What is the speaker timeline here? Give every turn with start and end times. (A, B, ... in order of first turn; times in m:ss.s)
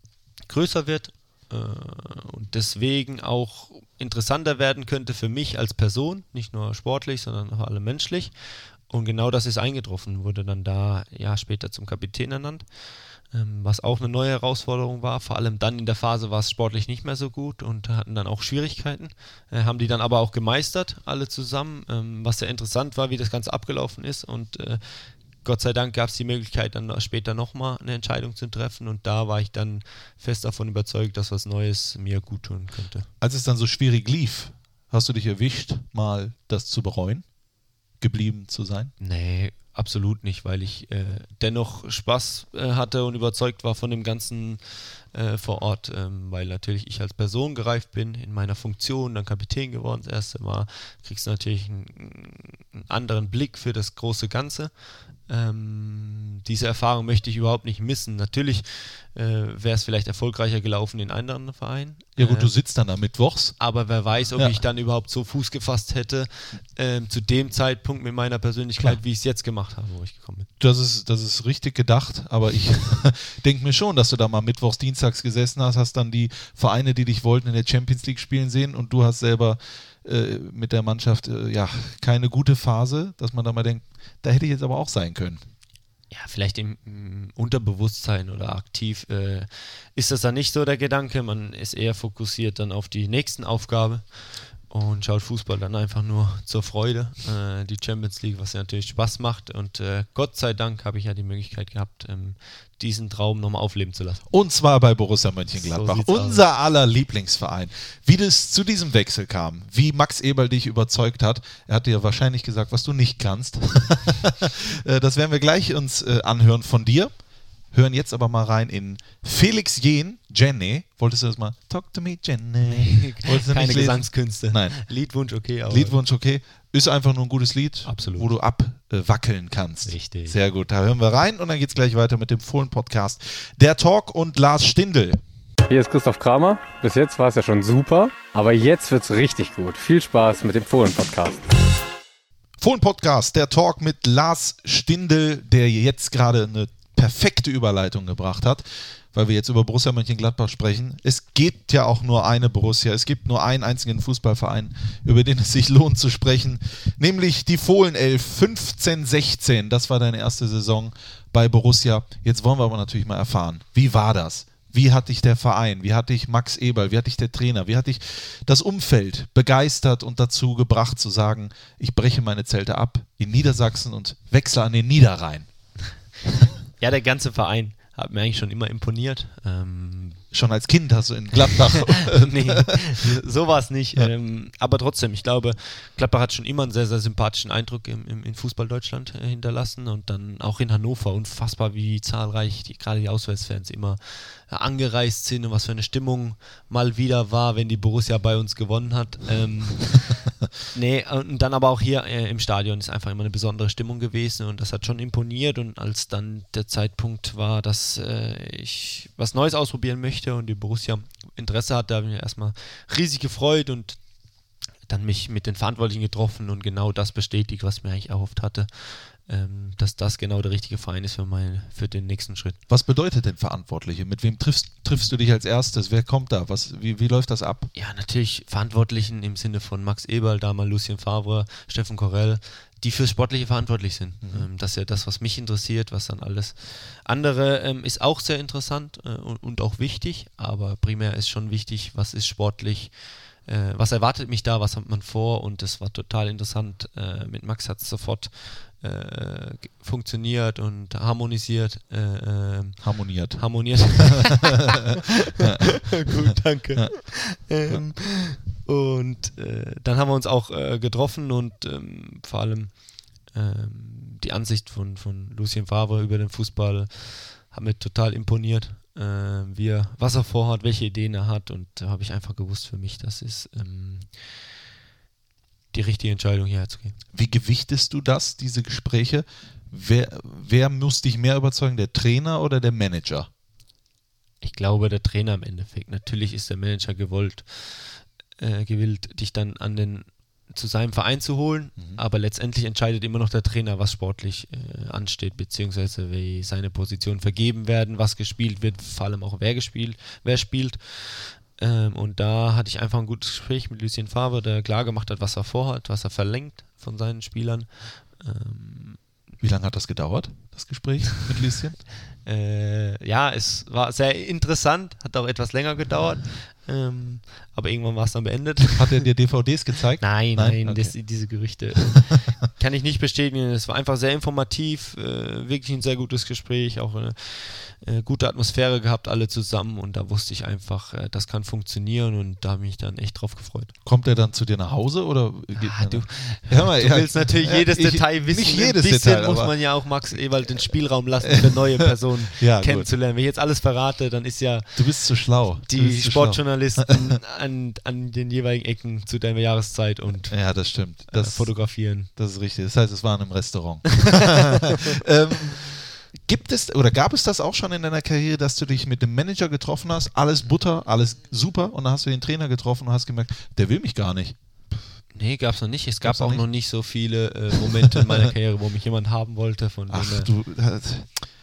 0:00.5-0:12.6 A
0:13.3-0:33.1 A
0:33.2-0:37.3 B
0:38.0-0:38.9 B
0:39.0-1:02.5 A
1:02.2-1:03.6 B
1:03.6-1:10.5 A
1:10.6-1:25.4 B
1:26.1-1:44.2 A
1:44.3-1:57.2 B
1:45.6-1:46.4 A
1:57.7-2:04.8 B
2:02.6-2:06.0 A
2:05.7-2:15.2 B
2:07.9-2:08.3 A
2:09.8-2:10.4 A
2:15.7-2:21.5 C
2:22.6-2:55.5 B
2:56.8-3:00.2 A
3:00.3-3:03.2 B
3:02.0-3:20.2 A
3:20.7-3:34.0 A
3:34.9-3:42.6 A
3:42.7-3:47.7 B
3:47.8-4:14.8 A
4:12.8-4:14.1 B
4:15.4-4:34.4 A
4:15.4-4:16.2 B
4:16.7-4:17.9 B
4:35.7-4:37.0 A
4:37.1-4:43.3 B
4:44.4-5:09.0 A
5:09.4-5:11.8 B
5:12.2-5:19.0 A
5:18.8-5:21.5 B
5:20.0-5:33.7 A
5:33.8-5:40.5 B
5:35.6-5:52.1 A
5:41.2-5:42.9 B
5:44.8-5:46.9 B
5:50.3-6:04.4 B
6:05.1-6:10.3 A
6:06.0-6:06.4 B
6:09.9-6:11.3 B